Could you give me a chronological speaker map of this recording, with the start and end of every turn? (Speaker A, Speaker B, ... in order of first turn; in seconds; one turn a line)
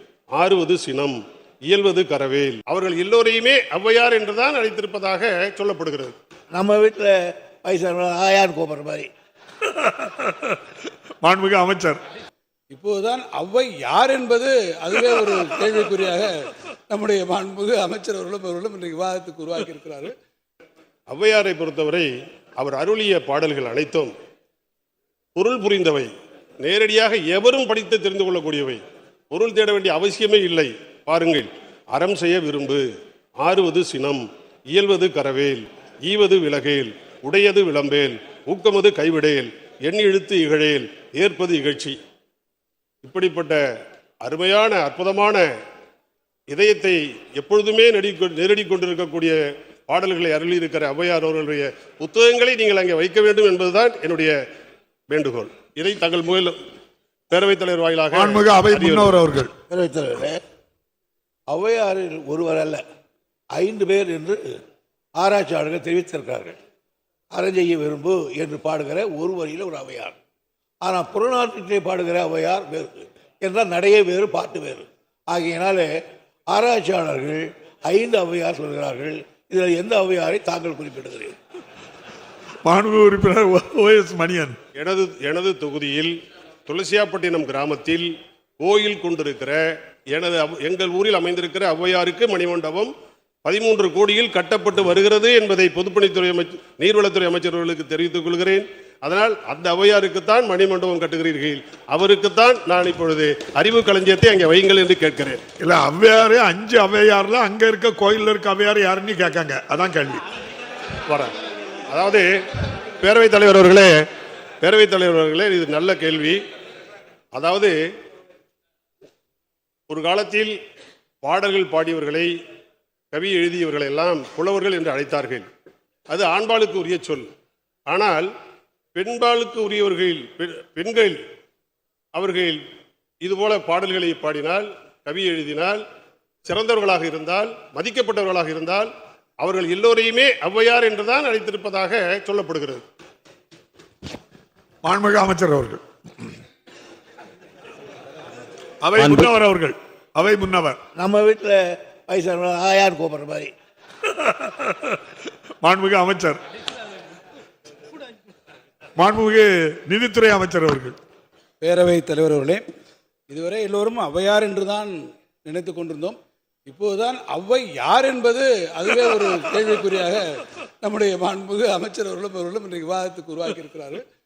Speaker A: 0.3-1.2
Speaker A: 1.7-6.1
Speaker B: 6.5-9.1
Speaker C: 9.8-10.5
Speaker C: 11.2-12.0
Speaker D: 12.7-20.1
Speaker A: 21.1-24.1
Speaker A: 25.4-32.9
Speaker A: 33.4-42.0
Speaker A: 43.0-43.6
Speaker A: 44.2-45.5
Speaker A: 46.5-54.4
Speaker A: 55.1-56.6
Speaker A: 57.3-59.2
Speaker C: 58.1-59.5
Speaker B: 59.7-60.4
Speaker B: 61.5-62.8
Speaker B: 63.5-64.5
Speaker B: 65.2-66.5
Speaker B: 67.3-70.2
Speaker B: 70.8-75.9
Speaker B: 76.5-81.3
Speaker C: 82.6-84.6
Speaker A: 84.8-86.1
Speaker A: 86.7-92.9
Speaker A: 93.4-105.4
Speaker C: 105.6-110.2
Speaker A: 111.1-111.3
Speaker A: 111.9-114.0
Speaker A: 114.6-116.4
Speaker A: 117.3-117.8
Speaker A: 119.9-120.6
Speaker A: 121.2-122.3
Speaker A: 123.1-125.5
Speaker A: 126.1-127.3
Speaker A: 127.9-128.3
Speaker A: 128.9-131.2
Speaker A: 132.1-132.6
Speaker A: 133.2-135.8
Speaker A: 136.4-142.8
Speaker C: 144.8-146.3
Speaker C: 148.8-150.8
Speaker B: 150.9-153.5
Speaker C: 154.2-154.9
Speaker C: 155.6-156.4
Speaker C: 159.0-160.9
Speaker D: 161.6-162.6
Speaker D: 163.3-174.0